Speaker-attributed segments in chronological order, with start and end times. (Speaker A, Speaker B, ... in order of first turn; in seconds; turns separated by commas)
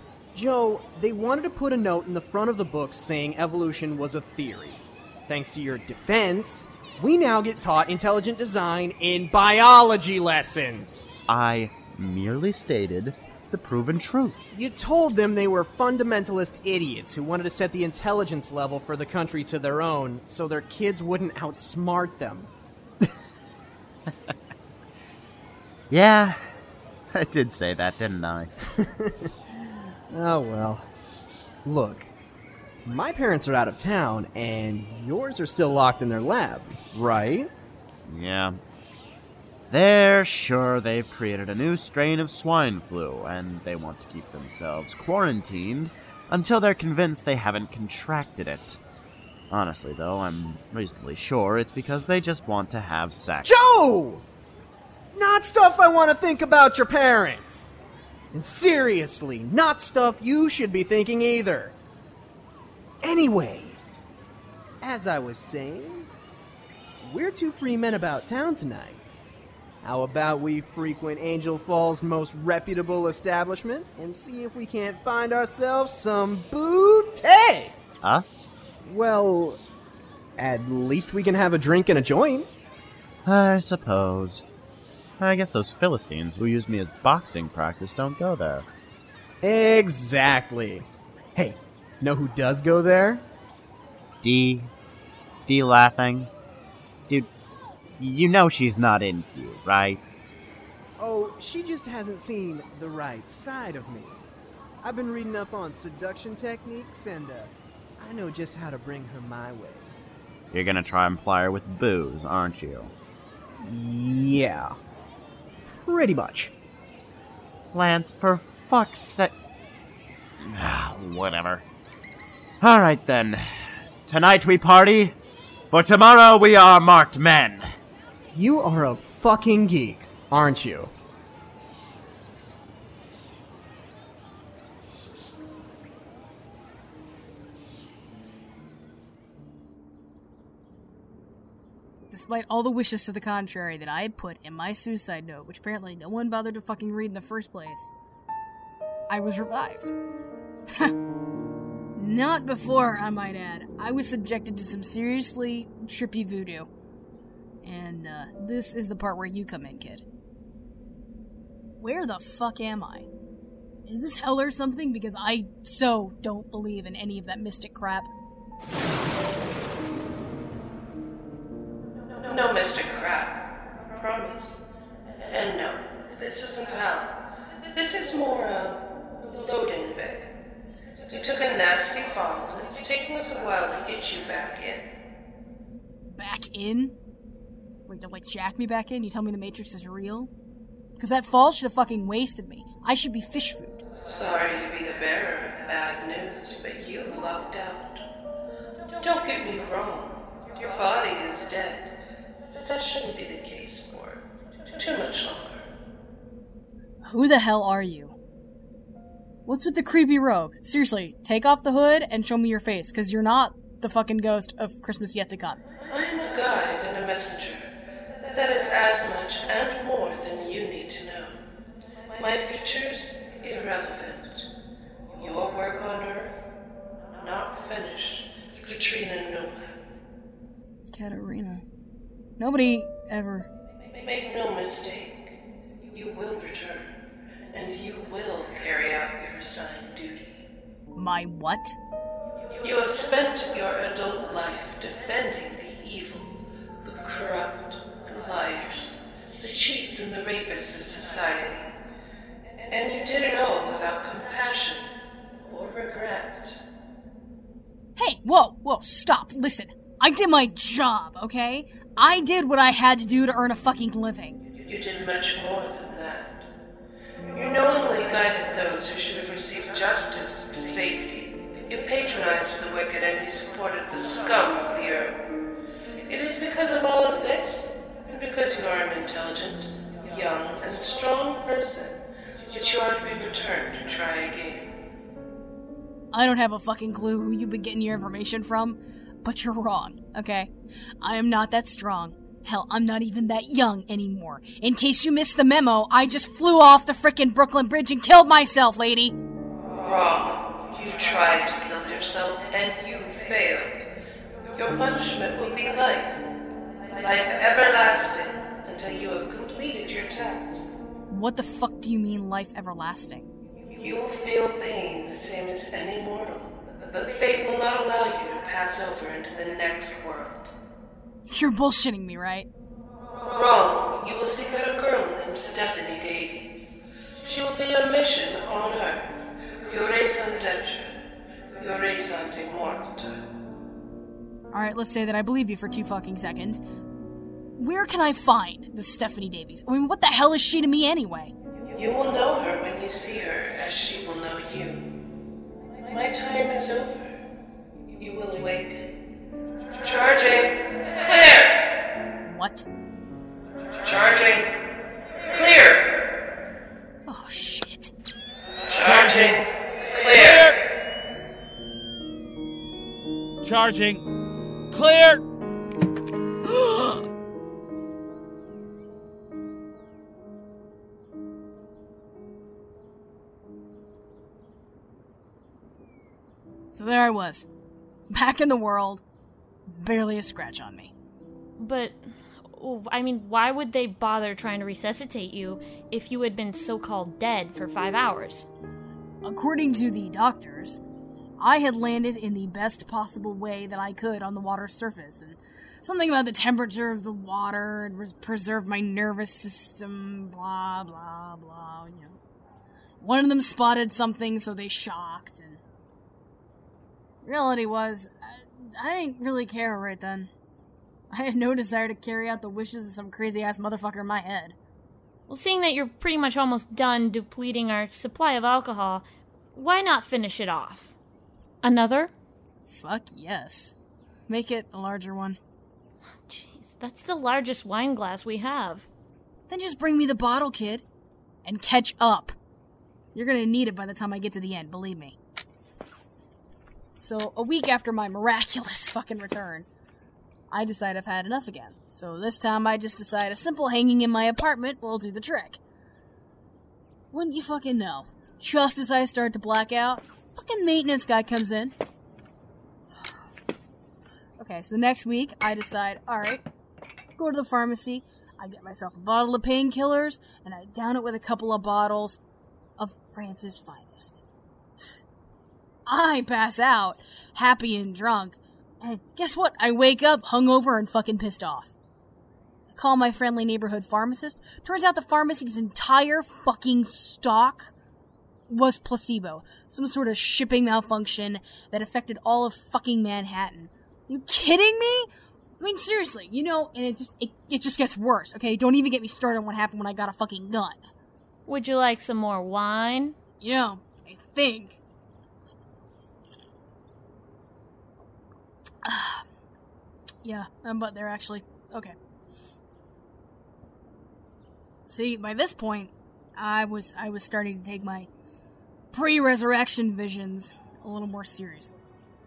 Speaker A: 0.3-11.0, Speaker B: 11.3-14.4, Speaker A: 14.5-22.5, Speaker B: 25.9-26.6, Speaker B: 27.1-28.5, Speaker A: 28.8-30.9, Speaker A: 31.6-32.1, Speaker A: 32.8-37.5, Speaker B: 38.0-38.6, Speaker B: 39.7-48.8, Speaker B: 49.5-53.5, Speaker A: 53.4-54.2, Speaker A: 55.1-57.7, Speaker A: 58.3-61.8, Speaker A: 63.0-63.8, Speaker A: 64.8-66.1, Speaker A: 67.0-69.1, Speaker A: 69.8-77.8, Speaker B: 78.0-78.4, Speaker A: 78.8-79.6, Speaker A: 80.4-82.5, Speaker B: 83.2-84.4, Speaker B: 85.2-88.7, Speaker A: 89.4-93.2, Speaker B: 94.2-94.7, Speaker B: 95.5-96.3, Speaker B: 98.0-100.1, Speaker A: 101.0-104.2, Speaker A: 104.8-109.9, Speaker B: 110.5-112.9, Speaker A: 113.6-114.7, Speaker A: 115.7-116.5, Speaker B: 117.7-119.3, Speaker B: 120.4-121.6, Speaker B: 122.6-125.2, Speaker B: 125.7-127.7, Speaker A: 128.3-130.9, Speaker C: 142.1-147.9, Speaker C: 149.1-149.9, Speaker C: 151.9-156.7, Speaker C: 157.6-160.0, Speaker C: 161.8-163.1, Speaker C: 163.8-168.1, Speaker D: 172.2-174.5, Speaker D: 175.2-177.1, Speaker D: 177.7-180.3, Speaker D: 181.1-184.9, Speaker C: 186.1-186.9, Speaker C: 187.9-190.3, Speaker C: 191.0-193.8, Speaker D: 194.0-198.0, Speaker D: 198.9-201.9, Speaker D: 202.5-204.2, Speaker D: 204.7-205.6, Speaker C: 207.0-208.1, Speaker C: 209.4-215.6, Speaker D: 215.8-217.7, Speaker D: 218.2-221.4, Speaker D: 222.1-224.4, Speaker D: 225.2-226.3, Speaker D: 227.1-229.7, Speaker C: 230.9-231.6, Speaker C: 232.4-233.5, Speaker D: 233.9-235.3, Speaker D: 235.9-236.9, Speaker D: 237.5-240.3, Speaker C: 240.9-241.8, Speaker D: 242.5-246.3, Speaker D: 246.8-251.7, Speaker D: 252.7-254.9, Speaker D: 255.4-256.6, Speaker C: 257.9-264.4, Speaker D: 264.6-266.5, Speaker D: 267.3-275.3, Speaker D: 276.0-284.7, Speaker C: 286.1-299.1, Speaker D: 299.8-303.9, Speaker D: 304.5-306.2, Speaker D: 306.9-310.7, Speaker C: 311.1-313.3, Speaker D: 313.7-320.5, Speaker C: 321.3-322.5, Speaker D: 323.2-329.1, Speaker D: 329.6-330.9, Speaker D: 331.5-333.1, Speaker C: 334.5-336.6, Speaker C: 337.6-341.3, Speaker D: 341.7-344.8, Speaker D: 345.8-347.2, Speaker D: 347.9-348.9, Speaker D: 349.8-351.5, Speaker C: 352.2-352.7, Speaker D: 353.8-354.5, Speaker D: 355.2-355.9, Speaker C: 357.1-357.9, Speaker D: 358.7-360.6, Speaker C: 366.4-367.1, Speaker C: 376.7-377.4, Speaker C: 378.1-379.0, Speaker C: 379.7-380.9, Speaker E: 381.6-388.5, Speaker C: 389.2-390.8, Speaker C: 391.4-402.2, Speaker C: 403.0-405.6, Speaker C: 407.2-410.3, Speaker C: 411.1-414.6, Speaker E: 415.3-420.9, Speaker E: 421.6-422.1, Speaker C: 422.7-423.7, Speaker C: 424.3-425.4, Speaker E: 426.3-428.9, Speaker C: 429.5-430.8, Speaker C: 431.4-432.3, Speaker C: 433.1-435.1, Speaker C: 436.9-439.6, Speaker C: 440.5-445.6, Speaker C: 447.1-451.7, Speaker C: 454.4-456.4, Speaker C: 457.2-462.2, Speaker C: 462.8-464.2, Speaker C: 465.9-471.7, Speaker C: 472.7-477.7, Speaker C: 478.5-485.1, Speaker C: 485.6-490.8, Speaker E: 491.5-493.1, Speaker C: 493.4-494.8, Speaker C: 498.8-499.2, Speaker C: 500.2-501.9, Speaker C: 504.9-508.1, Speaker C: 508.9-511.8